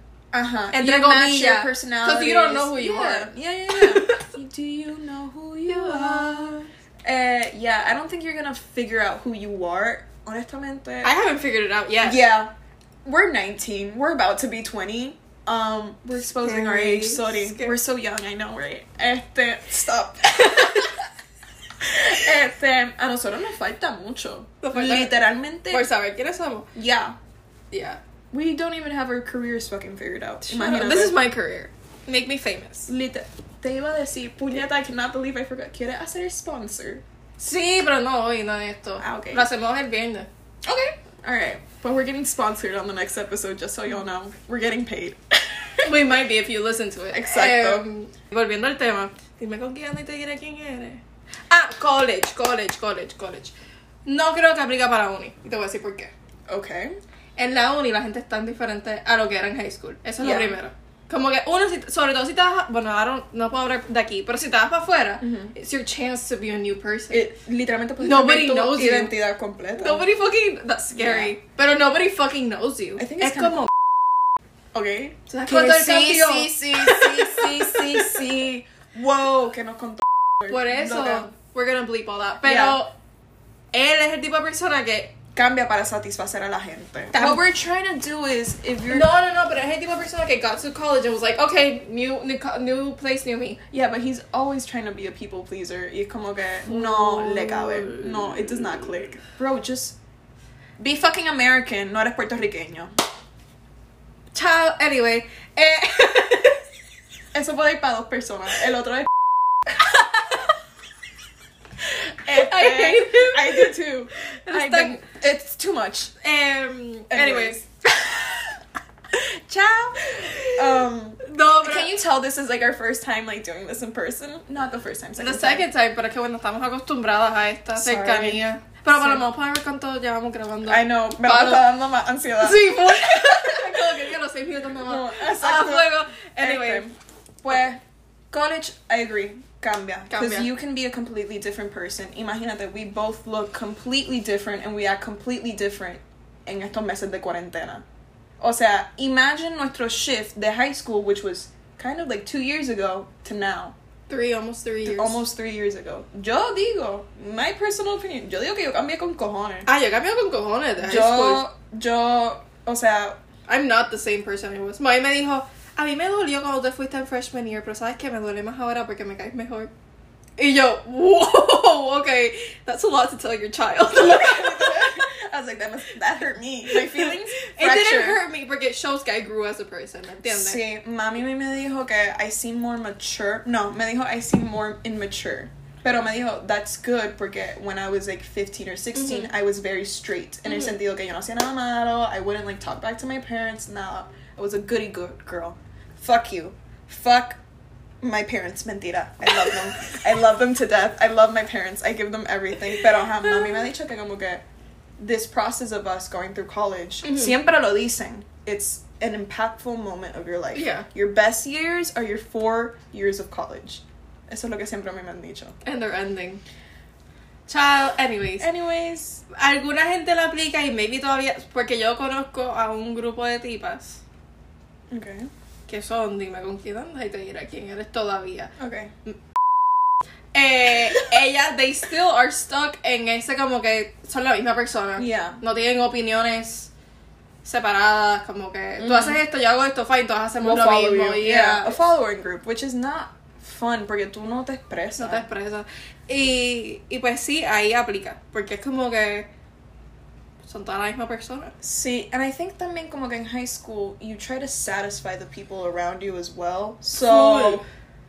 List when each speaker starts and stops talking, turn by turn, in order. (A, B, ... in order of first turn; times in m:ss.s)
0:00.3-0:11.1 A
0:00.7-0:04.3 B
0:05.6-0:06.6 B
0:11.0-0:12.2 B
0:12.0-0:12.5 A
0:13.0-0:21.0 A
0:16.4-0:17.8 B
0:20.5-0:21.0 B
0:21.8-0:25.8 A
0:24.6-0:25.2 B
0:25.7-0:26.7 B
0:26.7-0:27.1 A
0:27.7-0:28.0 B
0:28.3-0:31.2 A
0:30.4-0:32.9 B
0:32.9-0:37.0 A
0:37.4-0:40.3 B
0:39.0-0:39.5 A
0:40.7-0:45.9 A
0:45.8-0:53.5 B
0:47.1-0:47.8 A
0:54.0-0:56.1 B
0:56.5-0:57.0 A
0:57.4-1:07.3 B
1:00.2-1:00.6 A
1:05.2-1:05.5 A
1:07.1-1:10.0 A
1:08.0-1:09.1 B
1:09.8-1:13.7 B
1:10.9-1:11.3 A
1:13.0-1:13.7 A
1:14.7-1:21.3 A
1:15.3-1:18.3 B
1:20.5-1:22.9 B
1:22.4-1:22.8 A
1:23.7-1:25.1 B
1:25.3-1:29.1 A
1:27.1-1:27.4 B
1:28.9-1:33.6 B
1:33.7-1:40.0 A
1:36.6-1:38.8 B
1:40.8-1:42.9 A
1:44.3-1:46.6 B
1:47.3-1:49.8 A
1:49.8-1:50.3 B
1:51.8-1:56.1 A
1:52.3-1:53.8 B
1:54.4-1:55.0 B
1:56.2-1:57.6 B
1:57.1-1:58.5 A
1:59.1-2:05.6 A
2:00.0-2:01.9 B
2:05.2-2:11.6 B
2:07.8-2:08.4 A
2:10.7-2:14.1 A
2:12.4-2:16.8 B
2:14.8-2:27.8 A
2:20.1-2:20.5 B
2:28.4-2:33.7 A
2:34.1-2:35.2 B
2:34.8-2:39.7 A
2:39.6-2:41.4 B
2:40.8-2:43.2 A
2:43.5-2:49.7 B
2:50.4-2:54.9 B
2:53.9-2:58.2 A
2:56.7-3:00.6 B
3:00.2-3:17.4 A
3:08.9-3:09.3 B
3:18.0-3:24.4 A
3:25.0-3:35.6 A
3:27.0-3:27.3 B
3:30.5-3:30.8 B
3:35.6-3:36.4 B
3:37.5-3:38.5 B
3:38.4-3:39.2 A
3:39.3-3:44.0 B
3:44.9-3:45.3 A
3:45.7-3:48.5 B
3:48.6-3:48.9 A
3:50.3-3:56.7 B
3:55.0-3:55.4 A
3:57.4-4:01.8 B
3:58.8-3:59.2 A
4:00.4-4:05.2 A
4:05.0-4:09.3 B
4:10.4-4:11.5 B
4:11.6-4:17.6 A
4:17.0-4:17.6 B